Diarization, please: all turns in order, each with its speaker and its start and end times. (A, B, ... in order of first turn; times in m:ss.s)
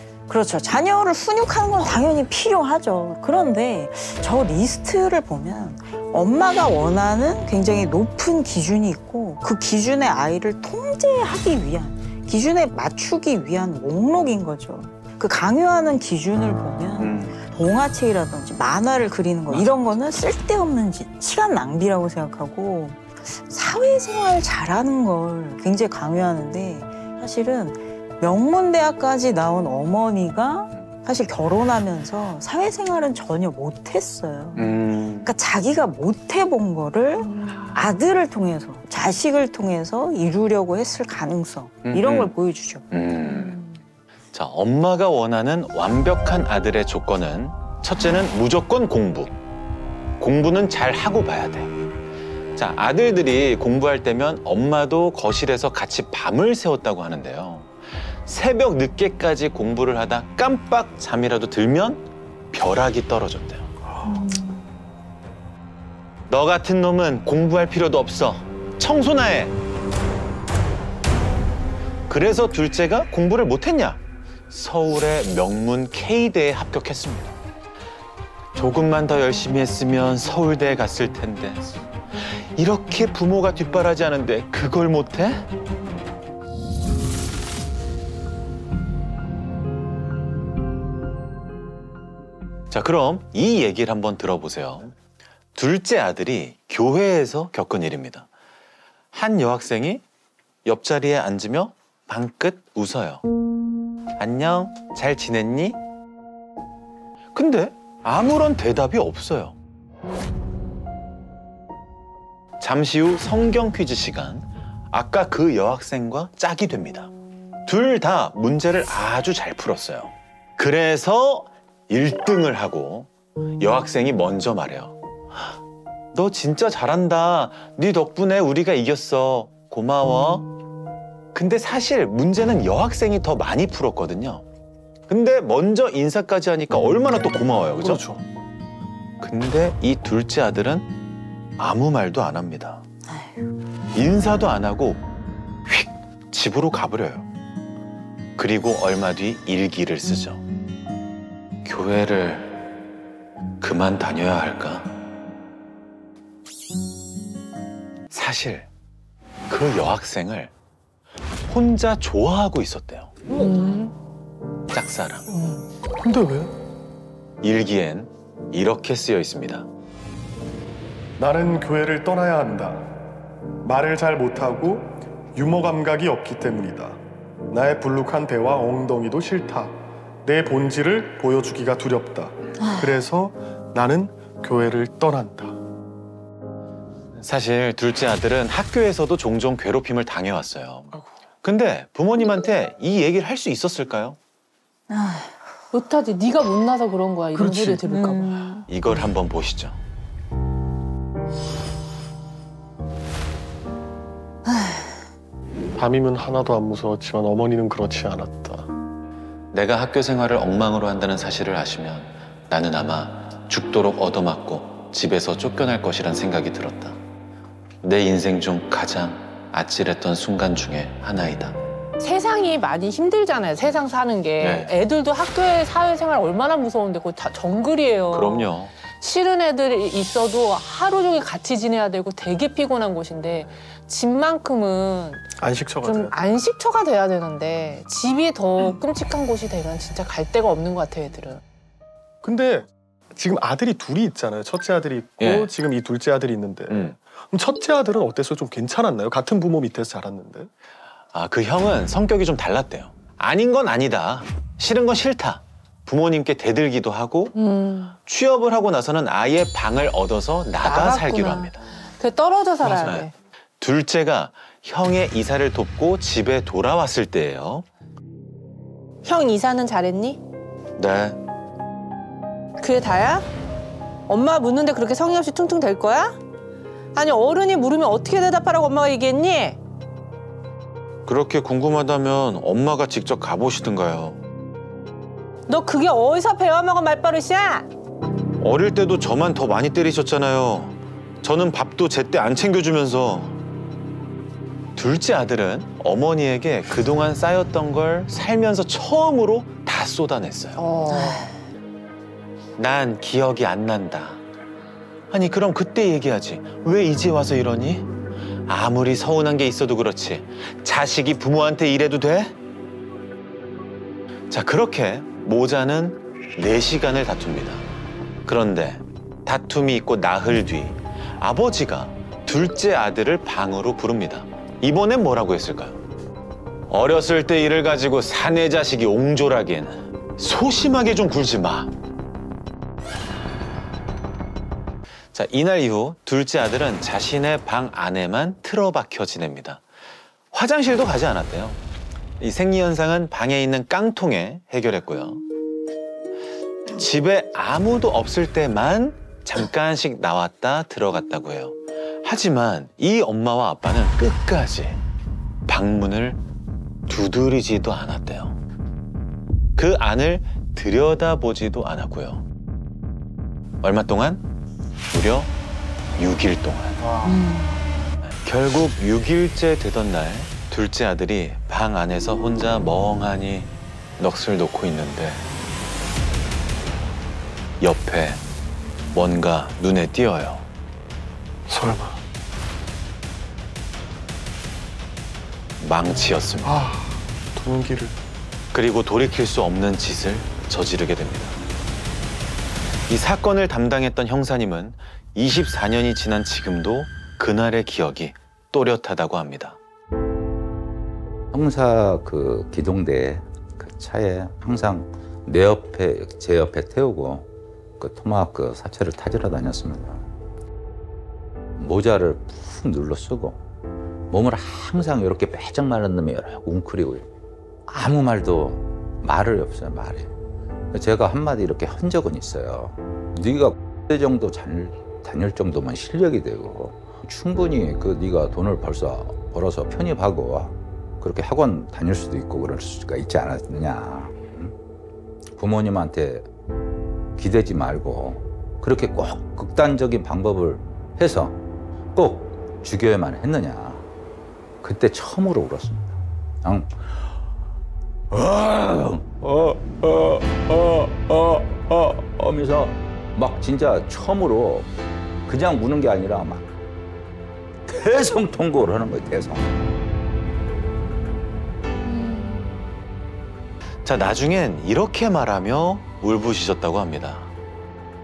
0:00.3-0:42.9 A
0:17.0-0:17.4 B
0:34.6-0:35.3 B
0:37.3-0:37.8 C
0:41.8-0:42.3 B
0:42.9-0:43.6 B
0:44.3-0:49.3 B
0:50.2-0:51.7 B
0:52.6-0:57.7 B
0:58.2-1:03.7 B
1:06.3-1:09.5 B
1:12.1-1:17.4 B
1:18.5-1:21.7 B
1:22.3-1:25.5 B
1:32.7-1:34.9 B
1:35.5-1:38.3 B
1:39.1-1:40.0 B
1:40.6-1:43.2 B
1:44.2-1:45.8 B
1:47.3-1:49.6 B
1:52.6-1:57.1 B
1:57.6-2:03.1 B
2:03.6-2:04.9 B
2:06.1-2:10.5 B
2:11.3-2:14.4 B
2:15.1-2:18.0 B
2:17.8-2:18.2 D
2:19.2-2:20.9 B
2:21.6-2:22.8 B
2:23.9-2:25.0 B
2:25.6-2:27.2 B
2:28.4-2:30.4 B
2:31.6-2:32.5 B
2:33.6-2:34.9 B
2:38.1-2:38.7 B
2:39.5-2:40.5 B
2:41.5-2:43.1 B
2:43.3-2:43.9 C
2:44.7-2:45.2 B
2:46.0-2:46.5 D
2:47.4-2:49.6 B
2:51.2-2:52.9 D
2:53.6-2:57.0 D
2:57.5-3:05.6 D
3:07.2-3:10.9 B
3:11.4-3:14.2 B
3:14.9-3:15.4 A
3:15.7-3:18.4 C
3:17.4-3:18.6 A
3:18.7-3:19.8 B
3:24.4-3:24.9 A
3:25.7-3:28.7 D
3:29.5-3:37.0 B
3:37.8-3:41.6 B
3:42.0-3:55.3 C
3:44.4-3:44.7 B
3:48.1-3:48.7 B
3:55.4-3:56.1 D
3:55.8-4:01.4 C
4:02.2-4:10.5 D
4:05.2-4:05.5 B
4:06.7-4:07.0 B
4:11.1-4:17.3 B
4:17.3-4:18.0 C
4:18.0-4:21.6 B
4:20.6-4:23.1 C
4:22.6-4:23.1 B
4:23.6-4:27.6 B
4:29.0-4:30.2 C
4:30.8-4:31.2 B
4:32.6-4:33.3 C
4:34.1-4:36.2 C
4:36.9-4:39.6 C
4:41.1-4:44.2 B
4:45.5-4:47.7 C
4:48.4-4:53.3 B
4:54.8-5:00.6 B
5:00.6-5:01.3 C
5:00.9-5:01.3 A
5:02.6-5:04.2 B
5:05.1-5:07.9 B
5:08.5-5:12.3 B
5:14.3-5:17.6 B
5:18.2-5:25.8 B
5:26.7-5:31.7 B
5:35.1-5:39.6 B
5:40.3-5:41.6 B
5:42.2-5:45.2 B
5:46.7-5:54.8 B
5:55.5-5:56.2 B
5:56.9-5:58.4 B
5:59.6-6:02.2 B
6:03.6-6:04.2 B
6:04.9-6:05.3 B
6:06.0-6:06.8 B
6:06.8-6:07.1 D
6:07.0-6:07.6 A
6:08.0-6:15.2 B
6:17.6-6:18.2 B
6:18.9-6:20.4 B
6:21.5-6:22.0 D
6:25.6-6:26.6 B
6:26.4-6:27.9 D
6:28.5-6:31.4 B
6:32.9-6:39.6 B
6:41.3-6:47.3 E
6:47.8-6:50.0 E
6:51.6-6:53.4 E
6:54.1-6:57.1 E
6:57.7-7:00.1 E
7:00.7-7:14.5 E
7:15.4-7:16.3 E
7:17.2-7:21.4 E
7:21.9-7:23.8 E
7:24.6-7:27.2 E
7:28.1-7:34.7 E
7:35.2-7:36.5 E
7:37.7-7:39.6 E
7:43.8-7:47.3 B